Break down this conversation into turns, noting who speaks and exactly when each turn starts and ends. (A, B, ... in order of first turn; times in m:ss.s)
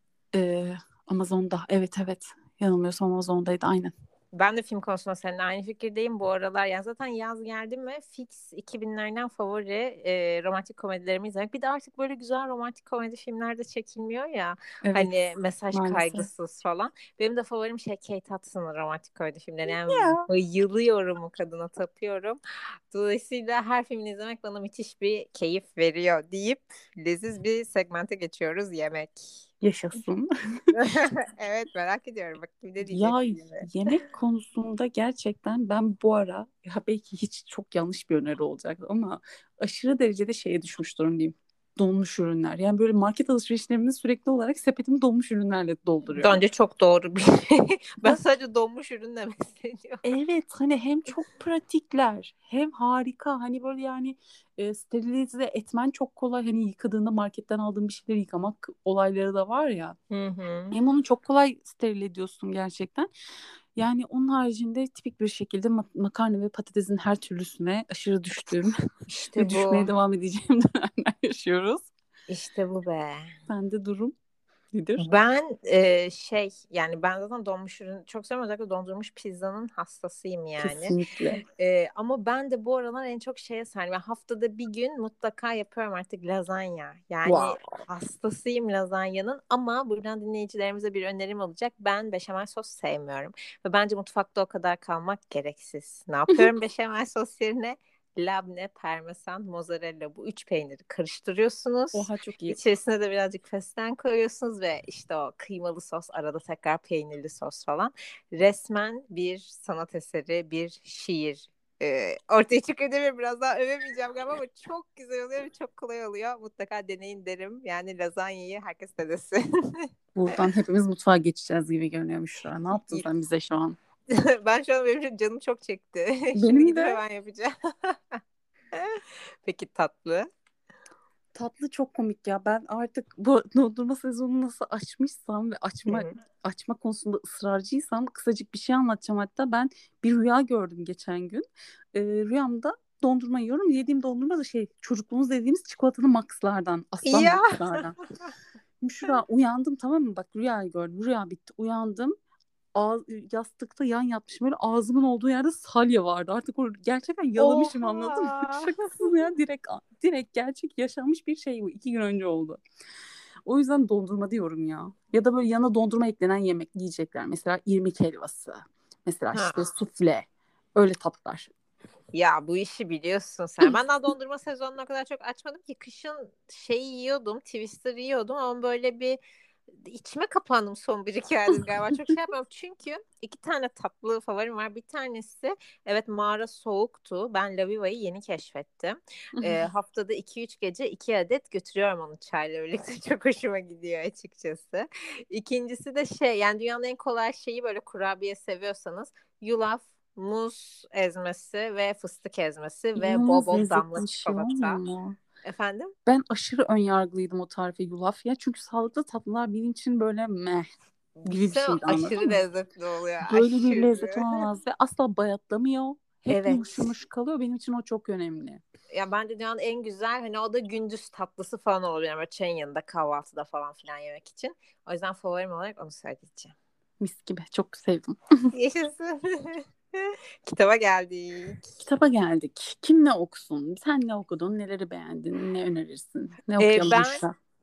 0:00.3-0:03.9 A
0:04.3-0:22.4 B
0:14.8-0:15.1 A
0:15.7-0:16.3 A
0:19.7-0:20.3 A
0:22.9-0:29.3 B
0:29.6-0:30.3 A
0:30.8-0:33.7 B
0:32.8-0:46.4 A
0:46.2-0:50.0 B
0:50.0-1:00.0 A
1:00.1-1:00.8 B
1:00.7-1:03.1 A
1:03.8-1:08.7 A
1:09.1-1:09.9 B
1:09.4-1:11.9 A
1:12.3-1:13.3 B
1:13.5-1:14.1 A
1:14.7-1:15.0 A
1:15.0-1:21.0 B
1:20.6-1:21.4 A
1:21.6-2:00.4 B
1:27.2-1:27.6 A
1:41.9-1:42.6 A
2:00.1-2:03.8 A
2:04.1-2:08.2 B
2:06.4-2:07.0 A
2:08.7-2:10.3 B
2:11.3-2:28.0 A
2:15.9-2:16.1 B
2:27.0-2:28.3 B
2:28.8-2:32.1 A
2:32.7-2:42.6 A
2:37.4-2:39.1 B
2:43.4-2:51.5 A
2:49.3-2:49.6 B
2:52.1-2:59.2 B
2:59.8-3:24.8 B
3:23.0-3:25.2 A
3:25.4-3:25.9 B
3:26.0-3:30.7 A
3:31.2-3:32.4 A
3:31.2-3:34.4 B
3:33.3-3:38.6 A
3:36.3-3:36.9 B
3:38.9-3:46.5 B
3:47.0-3:48.2 A
3:48.5-3:51.6 B
3:51.8-3:57.3 A
3:56.6-3:57.2 B